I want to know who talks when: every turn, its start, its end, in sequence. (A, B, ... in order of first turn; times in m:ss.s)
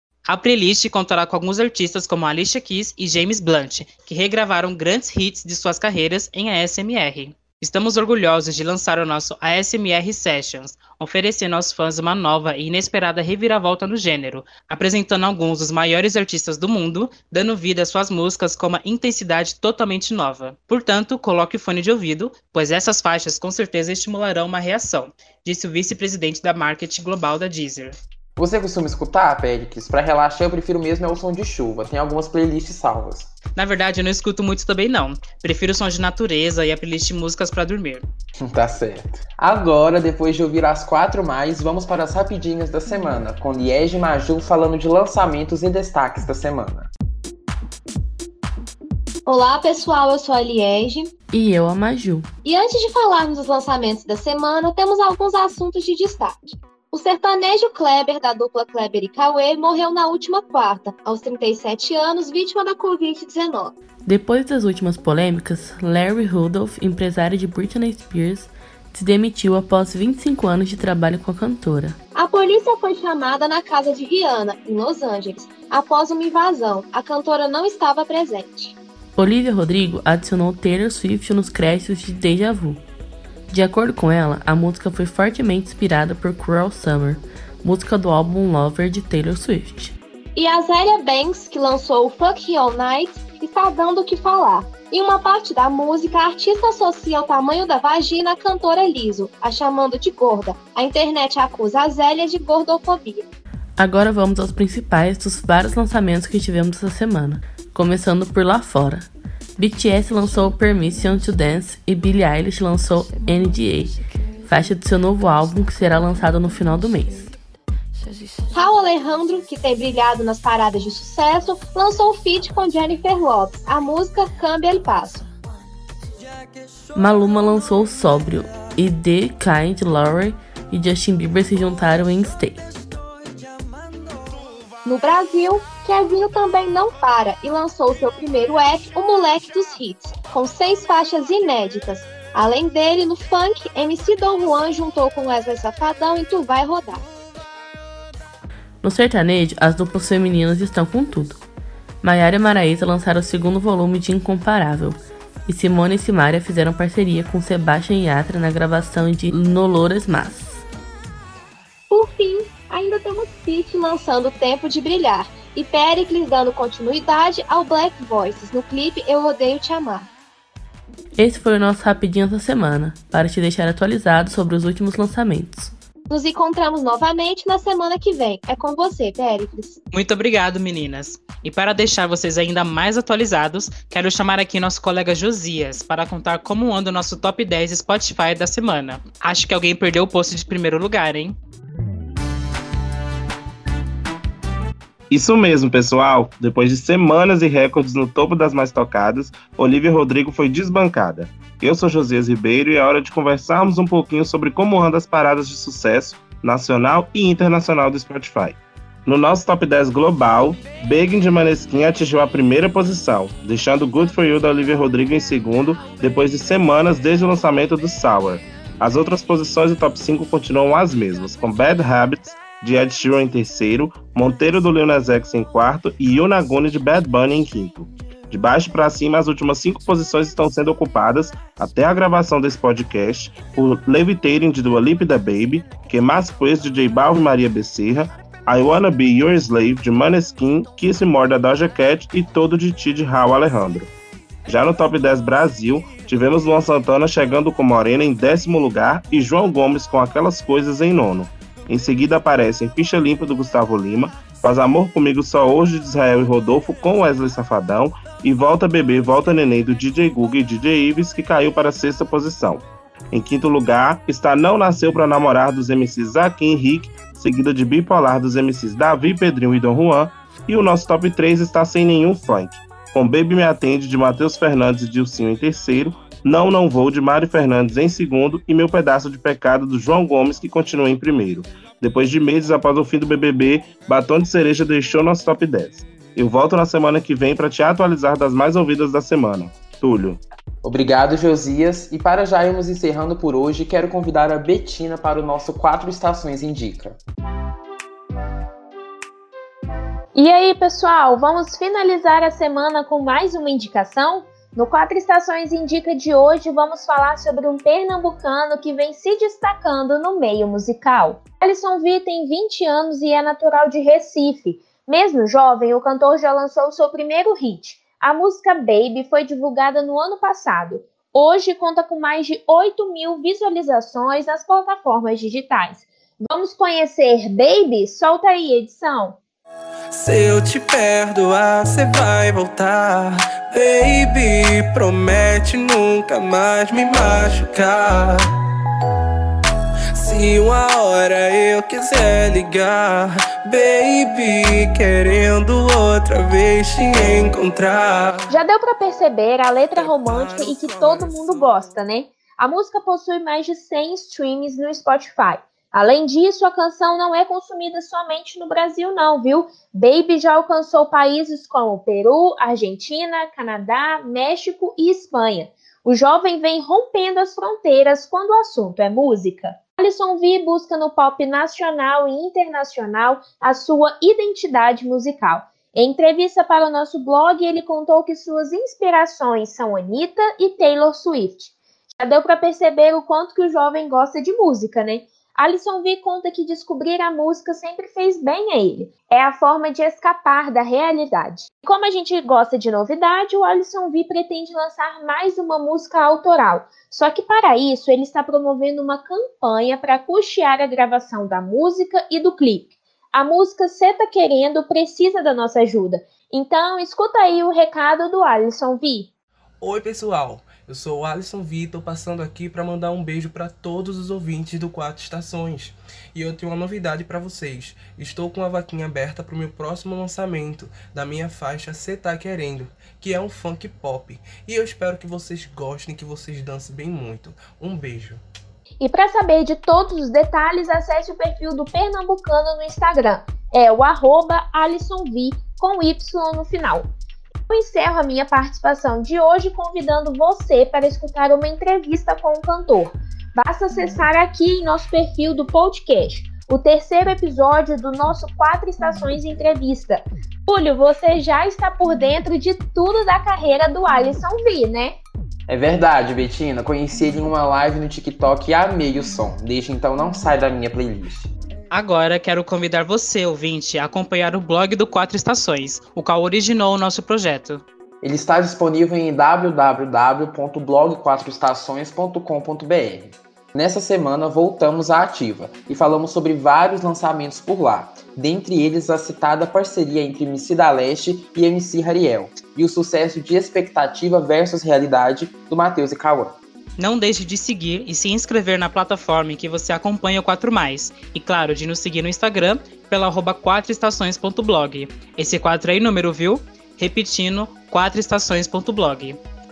0:00.3-0:28.0 A
0:28.4-0:33.3 B
0:33.6-0:38.0 A
0:38.4-0:46.9 B
0:49.3-0:51.1 C
0:51.3-0:52.3 D
0:52.4-1:03.7 C
1:04.0-1:12.0 D
1:12.2-1:18.8 C
1:19.2-1:22.8 D
1:23.5-1:29.9 D
1:30.4-1:43.3 C
1:43.8-1:57.3 D
1:58.5-2:05.3 C
2:07.0-2:12.7 D
2:14.8-2:27.0 C
2:28.8-2:31.4 D
2:32.0-2:40.6 D
2:41.9-2:50.1 C
2:51.2-2:55.7 D
2:56.1-2:59.8 C
2:59.9-3:11.4 A
3:15.1-4:03.9 E
4:04.5-4:50.2 E
4:50.6-4:57.0 B
5:00.2-5:29.2 F
5:29.9-5:38.2 G
5:40.0-5:48.3 G
5:48.3-6:49.1 F
5:49.7-5:51.8 G
6:49.6-7:08.2 G
7:08.8-7:16.9 F
7:17.5-7:35.0 F
7:35.5-7:41.3 B
7:41.7-7:47.6 A
7:48.0-8:06.4 B
8:06.8-8:19.2 A